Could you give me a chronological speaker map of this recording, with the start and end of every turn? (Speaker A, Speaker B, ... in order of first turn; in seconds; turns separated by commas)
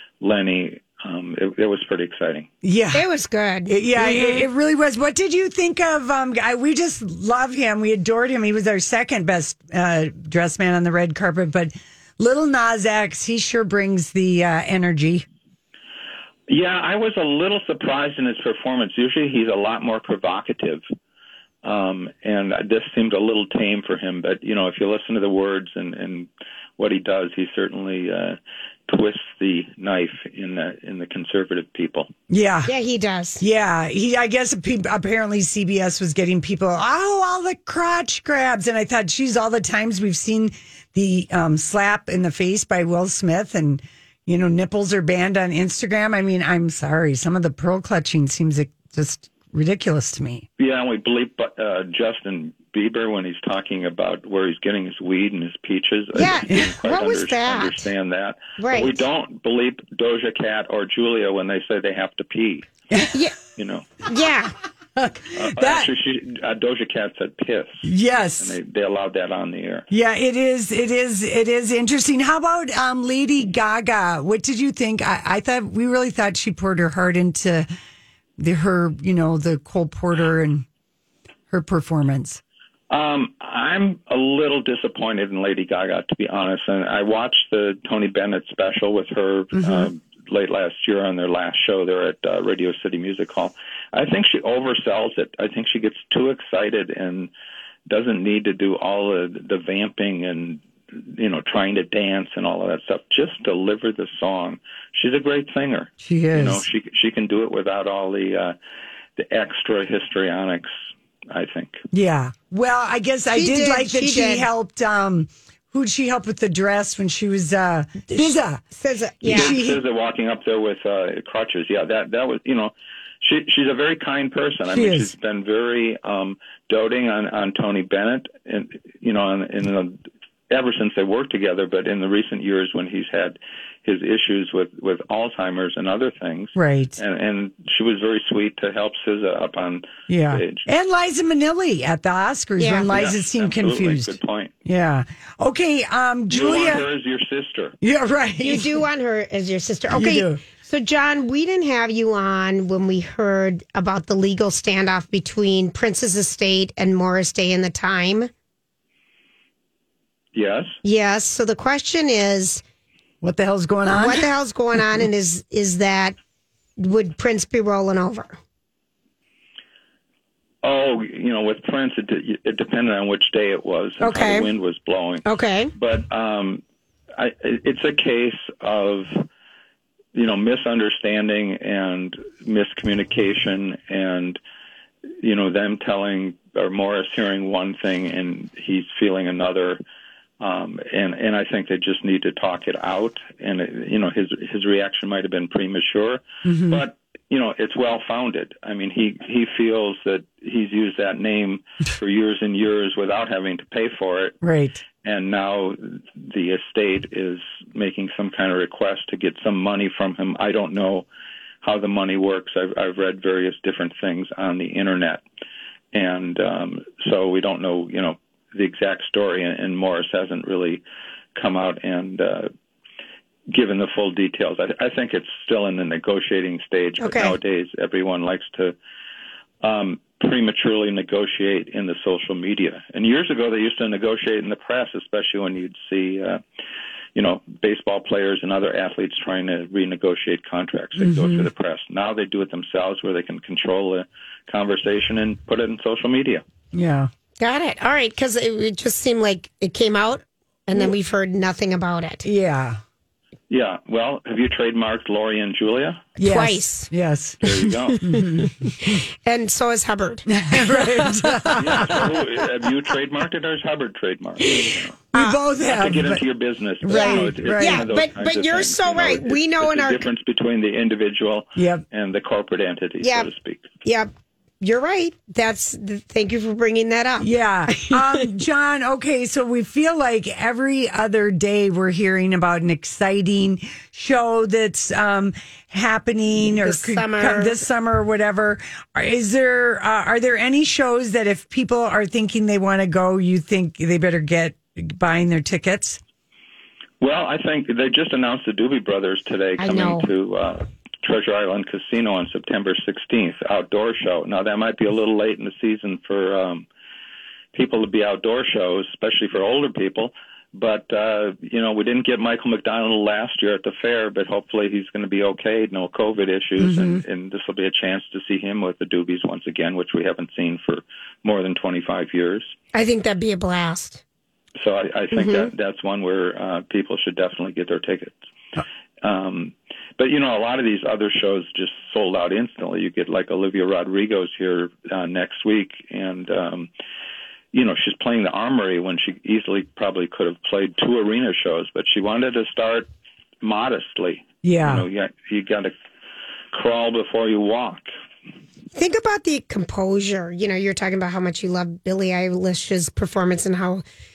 Speaker A: 0.2-2.5, Speaker B: 2.6-3.1, Speaker C: 2.9-4.5, Speaker B: 3.7-15.2, Speaker A: 16.5-20.8, Speaker A: 21.6-32.1, Speaker B: 32.3-32.7, Speaker C: 32.6-33.4, Speaker B: 33.4-50.5, Speaker A: 50.6-62.7, Speaker C: 56.1-57.9, Speaker B: 56.5-56.8, Speaker C: 58.6-59.0, Speaker B: 62.9-63.2, Speaker A: 63.5-63.9, Speaker C: 64.0-64.5, Speaker B: 65.0-65.9, Speaker A: 65.3-69.9, Speaker B: 67.8-68.6, Speaker B: 69.9-77.7, Speaker B: 78.4-80.7, Speaker B: 81.5-82.4, Speaker A: 82.9-97.3, Speaker B: 89.6-89.9, Speaker A: 97.9-108.5, Speaker B: 106.0-106.6, Speaker A: 109.2-110.7, Speaker A: 111.3-111.8, Speaker B: 111.9-118.6, Speaker C: 113.3-114.5, Speaker C: 118.1-119.6, Speaker B: 119.2-119.8, Speaker A: 119.3-140.6, Speaker B: 124.7-125.1, Speaker B: 136.6-137.0, Speaker B: 140.1-144.1, Speaker C: 142.6-142.9, Speaker A: 142.9-144.5, Speaker B: 144.7-146.8, Speaker A: 146.3-147.8, Speaker B: 147.8-148.8, Speaker C: 148.4-158.3, Speaker B: 149.9-150.4, Speaker A: 160.3-160.8, Speaker C: 160.8-162.6, Speaker B: 163.2-164.3, Speaker C: 163.9-166.1, Speaker C: 166.8-168.3, Speaker A: 170.6-176.6, Speaker C: 174.0-174.5, Speaker C: 175.2-175.7, Speaker A: 177.2-179.2, Speaker A: 180.1-184.4, Speaker A: 185.2-189.8, Speaker A: 190.4-204.4, Speaker B: 196.4-196.8, Speaker B: 204.4-204.8, Speaker A: 205.0-211.1, Speaker A: 211.6-215.2, Speaker A: 215.9-220.8, Speaker A: 221.3-222.5, Speaker A: 223.5-228.8, Speaker C: 227.0-227.4, Speaker A: 229.6-236.4, Speaker A: 237.1-246.4, Speaker B: 241.0-241.5, Speaker B: 246.7-247.1, Speaker C: 247.4-252.2, Speaker B: 252.2-252.8, Speaker A: 253.5-256.1, Speaker B: 256.2-258.9, Speaker C: 256.2-256.9, Speaker A: 257.4-258.1, Speaker C: 258.1-261.6, Speaker B: 260.3-262.0, Speaker A: 261.6-265.0, Speaker C: 265.1-265.4, Speaker B: 265.1-266.2, Speaker A: 265.6-273.6, Speaker B: 266.8-267.9, Speaker C: 266.9-270.1, Speaker B: 271.6-271.8, Speaker C: 273.0-273.3, Speaker C: 273.8-278.3, Speaker B: 277.2-296.0, Speaker C: 286.5-287.6, Speaker A: 297.0-306.6, Speaker C: 299.6-300.1, Speaker A: 307.5-322.5, Speaker B: 316.6-317.0, Speaker C: 322.7-324.0, Speaker A: 324.6-328.1, Speaker C: 325.1-325.5, Speaker A: 329.0-336.7, Speaker A: 337.5-342.9, Speaker A: 343.4-345.7, Speaker B: 344.4-344.9, Speaker A: 346.5-347.9, Speaker C: 348.7-353.9